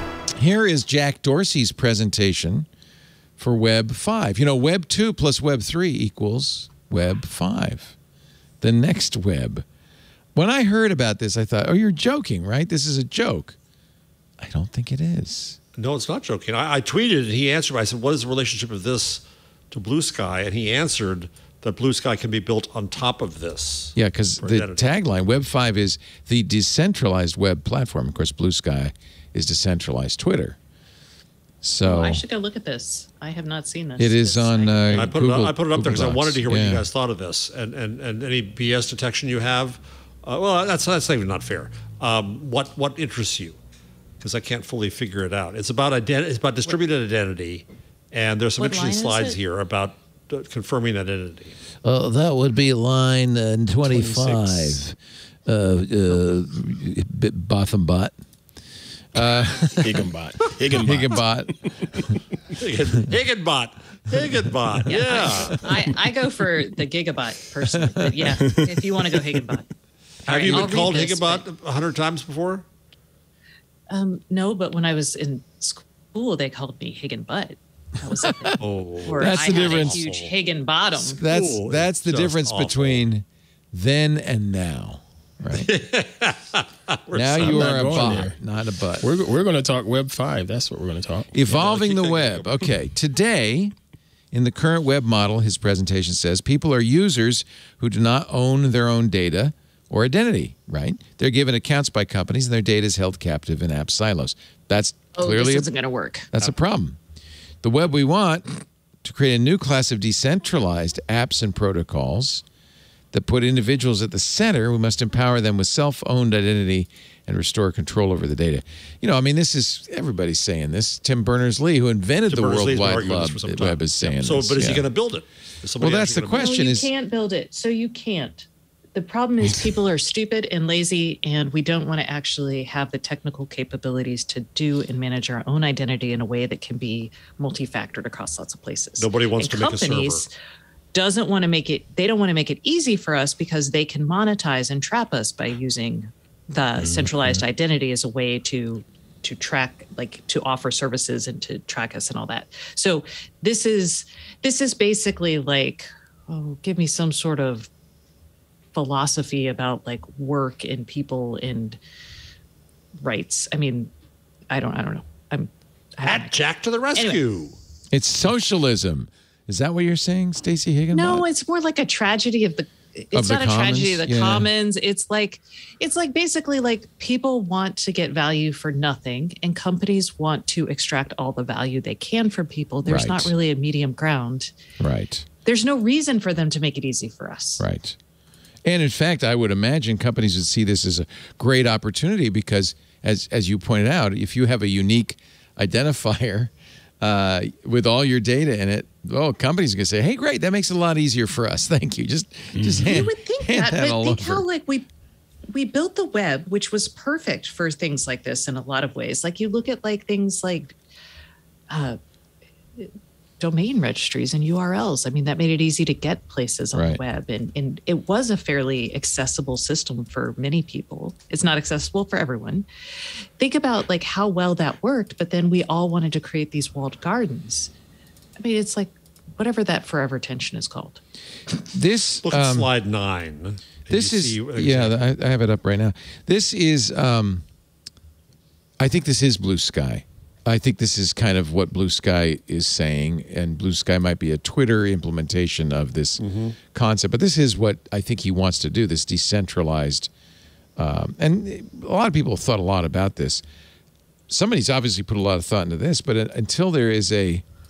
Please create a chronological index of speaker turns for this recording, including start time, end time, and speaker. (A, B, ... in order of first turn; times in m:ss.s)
0:00.4-0:02.7 A
0:03.4-0:08.0 A
0:08.6-0:09.7 A
0:10.4-0:13.6 A
0:14.4-0:15.6 A
0:15.8-0:25.0 B
0:24.0-0:30.6 A
0:31.6-0:32.2 A
0:31.8-0:35.1 C
0:34.0-0:36.9 A
0:34.9-0:43.6 B
0:44.2-0:51.6 B
0:48.6-0:49.4 C
0:51.8-0:58.1 A
0:54.1-0:54.4 D
0:59.1-1:00.0 A
0:59.8-1:02.1 D
1:00.7-1:02.2 A
1:02.5-1:05.7 B
1:04.9-1:09.7 C
1:07.9-1:08.4 A
1:08.4-1:09.3 D
1:10.2-1:11.4 C
1:10.3-1:12.6 B
1:13.9-1:21.2 C
1:18.2-1:18.6 A
1:18.6-1:20.3 B
1:19.2-1:20.0 A
1:21.0-1:25.7 A
1:21.3-1:23.0 B
1:25.5-1:28.2 B
1:27.1-1:29.1 A
1:27.4-1:28.4 D
1:29.0-1:31.3 D
1:31.3-1:33.7 A
1:31.4-1:32.8 B
1:34.3-1:45.7 A
1:45.2-1:46.3 C
1:46.3-1:47.0 A
1:47.6-1:48.5 A
1:49.0-1:52.4 A
1:53.1-2:04.9 A
2:02.3-2:06.6 B
2:05.8-2:06.9 A
2:06.3-2:20.3 C
2:19.0-2:20.3 B
2:20.9-2:37.7 C
2:26.8-2:27.4 D
2:38.7-2:41.8 C
2:43.0-2:43.9 C
2:44.5-2:46.3 C
2:46.0-2:47.6 B
2:47.9-2:51.3 A
2:50.9-3:04.5 C
2:53.1-2:54.5 A
3:02.8-3:03.3 A
3:04.8-3:05.3 A
3:05.4-3:07.6 C
3:07.6-3:08.0 A
3:08.6-3:24.4 A
3:22.5-3:23.1 D
3:22.8-3:24.9 C
3:25.5-3:30.8 C
3:31.7-3:32.0 C
3:32.8-3:42.7 C
3:36.7-3:37.0 A
3:43.4-3:47.7 C
3:48.4-3:51.0 C
3:51.7-3:52.7 A
3:52.2-3:55.0 B
3:53.9-3:57.4 A
3:58.8-4:10.1 A
4:06.2-4:06.6 B
4:10.8-4:13.4 A
4:14.3-4:17.4 A